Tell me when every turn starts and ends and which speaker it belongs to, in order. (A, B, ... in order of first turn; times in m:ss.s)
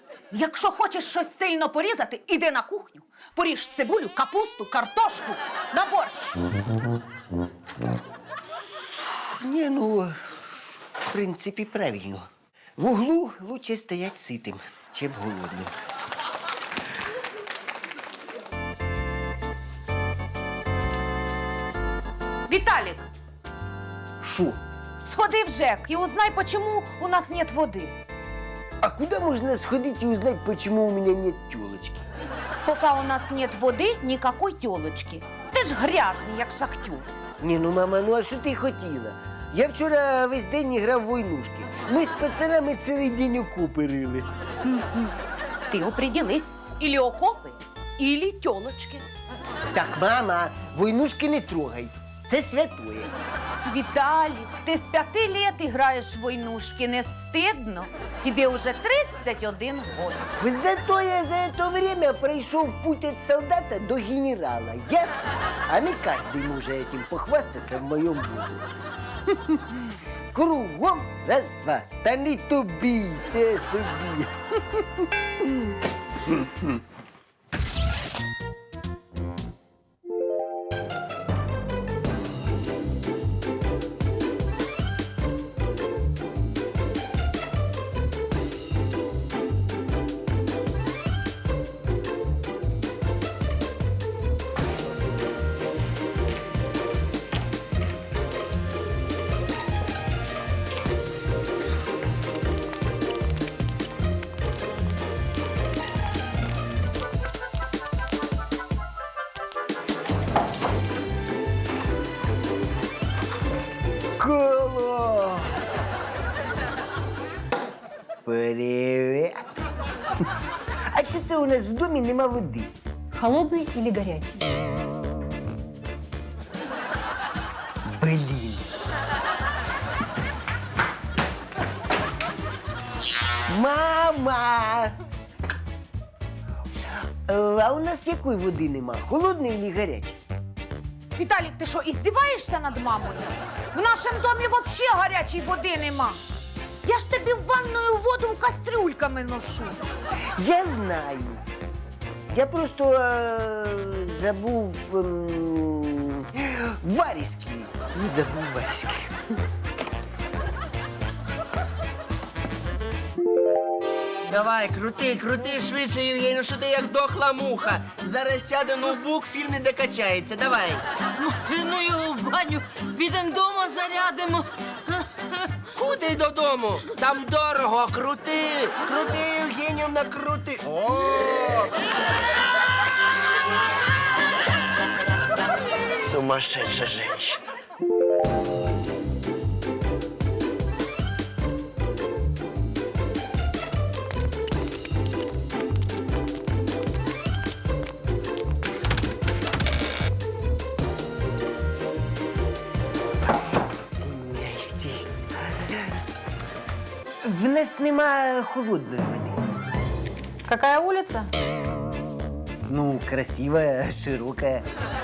0:00.3-0:06.4 A
0:09.4-0:10.3 B
0:11.0-0:15.8 B
0:22.5-0:23.0 A
0:24.2-0:24.6 B
0:25.0-0:27.9 A
0:28.8-0:32.0 B
0:32.7-0:37.1 A
0:37.4-0:44.3 B
0:45.7-0:49.1 A
0:49.7-0:53.1 B
0:53.6-1:00.3 A
1:00.4-1:15.6 B
1:16.2-1:16.8 B
1:54.2-1:55.7 B
1:58.2-1:59.6 B
2:00.9-2:02.7 B
2:03.1-2:04.4 C
2:07.9-2:08.7 B
2:13.5-2:15.0 B
2:17.3-2:20.2 B
2:21.2-2:26.2 A
2:26.8-2:29.8 A
2:30.4-2:31.4 B
2:32.3-2:39.3 B
2:44.3-2:50.8 D
2:51.2-2:54.5 E
2:55.8-3:01.7 D
3:06.0-3:07.4 D
3:23.9-3:25.9 B
3:27.2-3:29.4 B
3:30.5-3:31.3 C
3:32.7-3:34.6 B